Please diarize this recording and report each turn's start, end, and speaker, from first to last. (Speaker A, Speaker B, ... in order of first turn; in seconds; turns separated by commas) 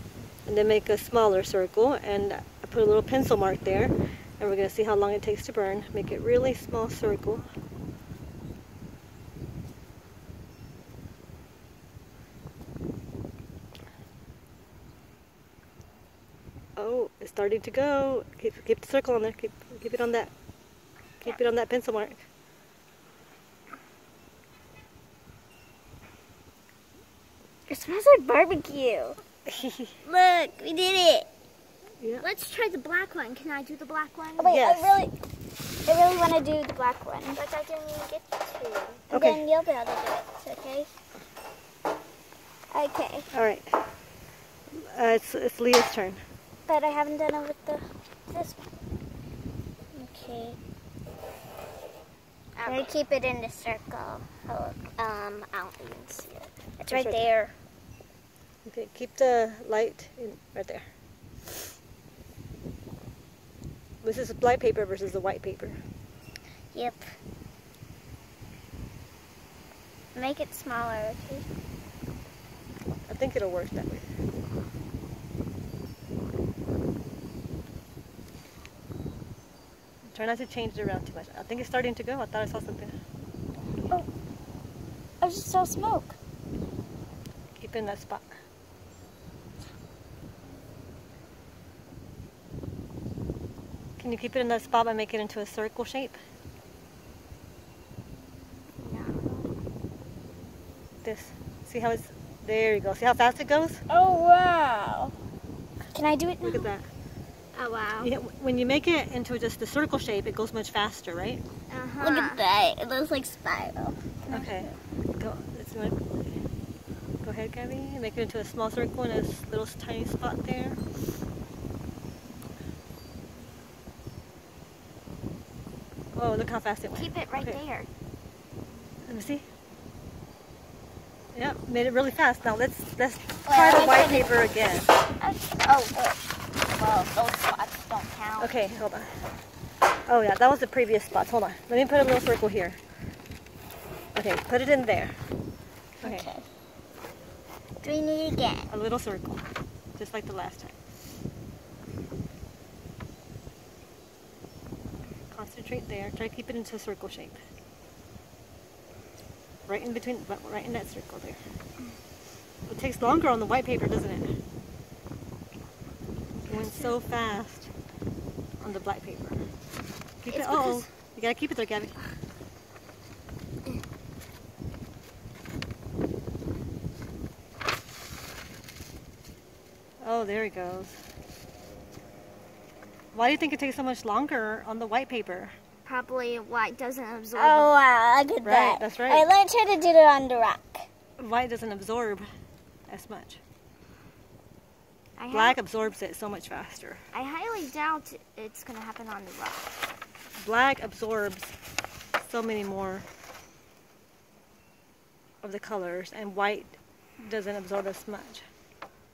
Speaker A: 0.5-7.5, Speaker A: 16.8-20.3, Speaker A: 21.2-22.2, Speaker B: 27.7-29.2, Speaker A: 29.5-29.9, Speaker B: 30.0-31.3, Speaker C: 32.2-34.6, Speaker B: 34.4-35.1, Speaker A: 34.5-35.0, Speaker B: 35.9-37.4, Speaker C: 37.3-39.0, Speaker A: 39.1-39.5, Speaker B: 39.1-40.9, Speaker B: 42.7-43.3, Speaker A: 43.3-43.7, Speaker A: 44.7-46.2, Speaker B: 46.7-48.6, Speaker B: 49.9-50.6, Speaker C: 52.5-53.0, Speaker B: 52.6-57.5, Speaker A: 56.9-57.2, Speaker A: 58.6-60.9, Speaker A: 64.0-65.8, Speaker B: 66.7-67.1, Speaker B: 70.1-71.5, Speaker A: 73.1-74.1, Speaker A: 80.1-82.9, Speaker B: 85.2-86.2, Speaker A: 87.5-88.2, Speaker A: 94.0-96.2, Speaker C: 98.8-99.5, Speaker A: 101.0-103.8, Speaker B: 103.9-105.1, Speaker B: 105.9-106.7, Speaker A: 106.4-106.9, Speaker C: 107.5-108.1, Speaker A: 108.0-111.4, Speaker C: 111.7-112.4, Speaker B: 112.0-114.0, Speaker A: 114.3-116.2, Speaker A: 117.2-120.8, Speaker A: 126.2-127.6, Speaker C: 126.9-127.9, Speaker A: 129.1-129.4, Speaker A: 131.3-134.9, Speaker C: 133.4-134.2, Speaker B: 133.8-134.3, Speaker C: 135.2-138.6, Speaker A: 138.4-139.1, Speaker A: 140.1-142.8, Speaker A: 144.1-145.2, Speaker B: 146.0-146.5, Speaker A: 146.0-146.3, Speaker B: 147.8-148.7, Speaker A: 148.7-149.4, Speaker A: 149.9-150.8, Speaker A: 155.3-157.4, Speaker A: 159.7-161.4, Speaker A: 162.7-164.3, Speaker A: 166.5-167.7, Speaker C: 166.5-166.9, Speaker A: 168.6-169.4, Speaker A: 170.2-171.9, Speaker C: 170.3-170.8, Speaker A: 180.0-181.0, Speaker A: 183.1-185.5, Speaker C: 185.8-187.7, Speaker B: 187.3-190.9, Speaker A: 188.4-189.3, Speaker A: 191.2-192.2, Speaker A: 192.9-193.4, Speaker C: 195.2-195.6, Speaker A: 195.3-197.0, Speaker C: 197.1-199.7, Speaker A: 200.4-201.5, Speaker A: 202.2-203.1, Speaker A: 205.4-208.4